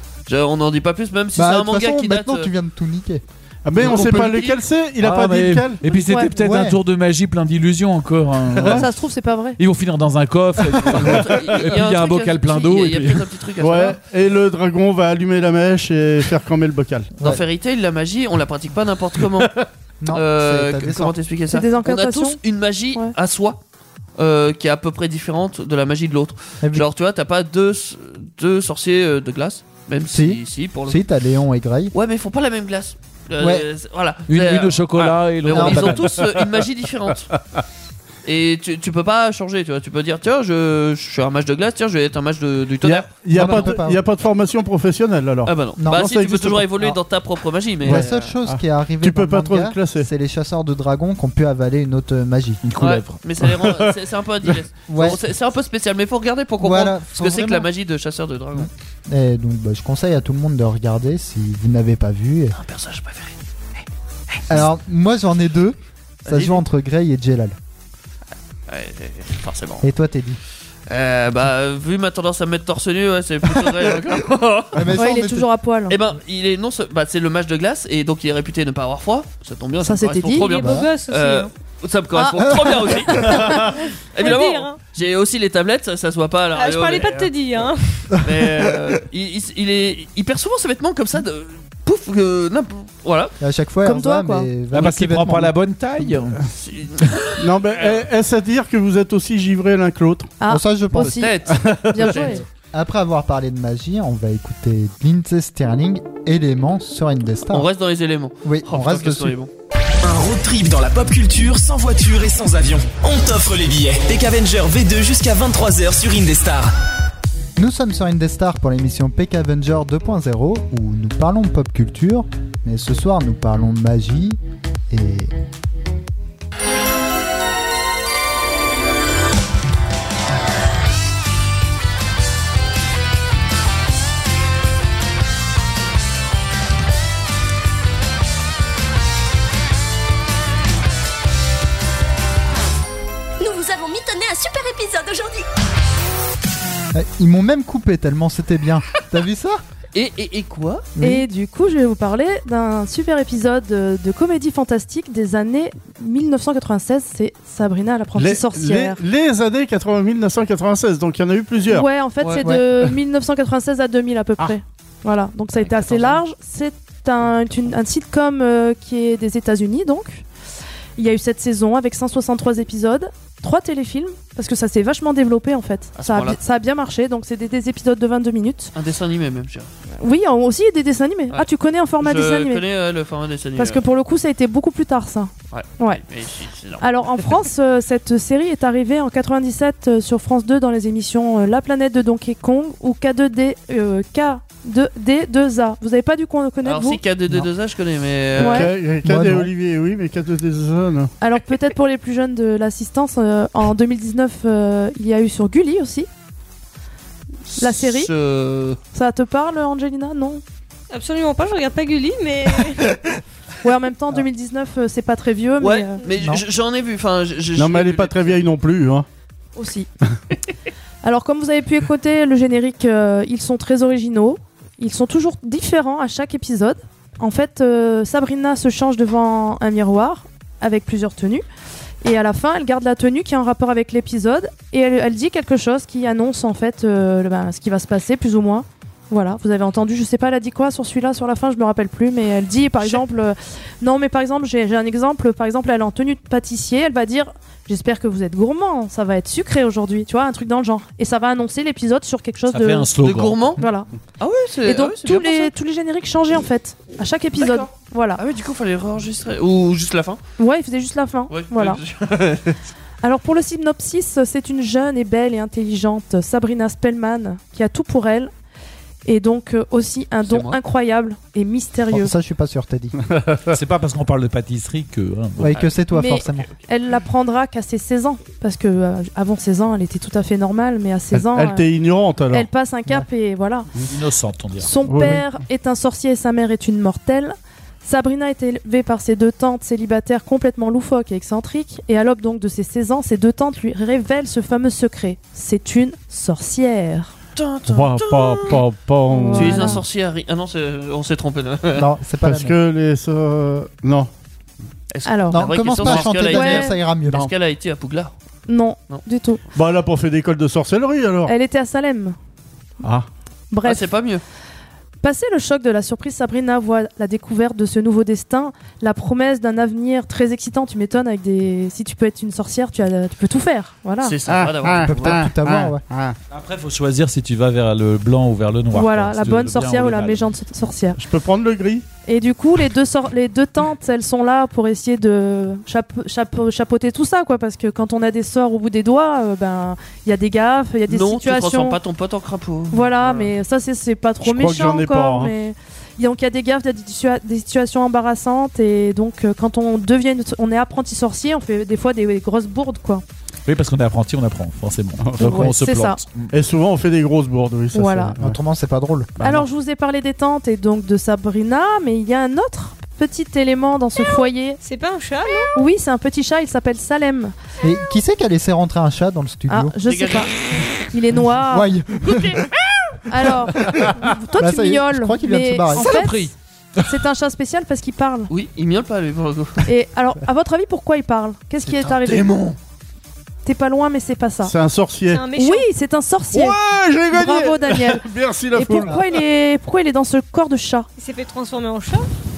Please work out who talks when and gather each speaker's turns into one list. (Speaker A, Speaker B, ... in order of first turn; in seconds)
Speaker A: 0.3-2.5, 3.8-4.6, 10.9-14.0, 17.2-23.6, 24.2-31.0, 31.9-37.3, 38.2-43.7, 45.5-48.4, 52.8-58.7, 62.5-63.4, 64.3-64.6, 66.2-66.6, 68.7-69.9, 70.9-74.9, 75.9-87.7, 88.2-93.3, 96.6-98.0, 100.9-102.4, 107.5-109.5, 149.9-150.9, 165.6-166.2, 176.0-176.4, 178.7-179.7, 182.0-183.8, 185.5-187.3, 196.6-198.7, 207.5-208.8, 215.6-218.4, 253.0-253.6, 254.2-255.5, 257.4-260.2, 261.3-262.6, 270.2-270.6, 275.5-276.5, 297.4-298.6, 299.3-301.9, 304.9-308.1, 313.6-314.2, 324.0-325.2, 340.9-342.9, 369.9-370.3, 372.1-372.4, 378.3-379.6
Speaker B: 1.4-3.2, 3.8-4.4, 5.9-6.8, 20.0-21.1, 30.1-31.9, 33.4-33.6, 35.5-36.0, 43.3-44.0, 45.8-46.1, 47.9-52.6, 54.9-55.2, 56.6-57.7, 58.5-62.6, 64.5-67.6, 69.8-70.4, 74.7-75.5, 80.6-80.9, 82.4-82.8, 93.4-96.1, 100.5-101.3, 102.6-107.7, 108.4-109.4, 117.6-124.4, 124.9-125.3, 146.9-149.6, 150.9-151.3, 199.0-199.5, 271.9-273.0, 275.4-276.5, 301.7-302.6, 305.3-307.3, 324.8-325.8, 358.2-359.2, 367.6-369.7, 371.5-372.4, 374.4-376.1
Speaker C: 3.6-5.8, 8.6-8.8, 13.6-17.1, 42.8-46.9, 47.8-50.1, 53.6-53.9, 97.4-100.3, 101.5-102.1, 158.2-162.9, 198.4-201.1, 217.6-219.1, 273.1-273.5, 281.1-282.5, 284.9-285.3, 297.7-299.8, 302.2-304.1, 309.6-311.3, 312.8-313.1, 324.3-326.1, 331.0-331.9, 344.2-345.3, 355.0-355.4, 356.3-358.4, 359.2-359.4, 384.4-385.2, 386.3-389.1
Speaker D: 5.0-8.9, 9.6-13.2, 34.3-36.1, 52.6-53.2, 94.7-96.4, 252.5-253.6, 273.5-275.6, 283.9-284.7, 326.3-330.3, 353.4-356.3, 375.7-376.3
Speaker E: 5.9-6.3, 8.7-9.6, 21.5-22.4, 75.0-76.0, 79.8-80.8, 82.2-83.6, 93.8-94.5, 100.4-102.4, 151.0-159.0, 161.7-170.2, 171.0-178.7, 180.0-182.6, 183.6-186.0, 186.8-197.0, 198.4-198.7, 201.2-206.1, 207.6-208.1, 208.9-210.4, 213.6-216.0, 219.6-219.9, 221.0-231.4, 232.0-252.9, 253.6-253.9, 254.7-258.2, 260.4-261.8, 263.0-268.3, 269.1-272.1, 275.9-281.6, 282.3-283.7, 284.6-297.1, 299.1-299.8, 305.1-306.8, 308.5-309.4, 311.3-312.1, 313.5-313.9, 315.0-324.1, 328.7-331.0, 332.1-341.8, 342.7-353.0, 355.2-356.0, 357.7-358.1, 359.2-364.6, 365.5-367.3, 369.5-370.3, 370.9-371.7, 373.1-376.3, 376.8-378.3, 379.6-382.4, 383.4-384.5, 385.4-386.6, 387.1-390.9
Speaker F: 80.6-81.5, 84.2-84.8, 86.5-88.1, 210.9-212.9, 364.6-365.6, 385.1-385.7, 391.0-392.1
Speaker G: 110.0-116.7
Speaker H: 143.4-145.4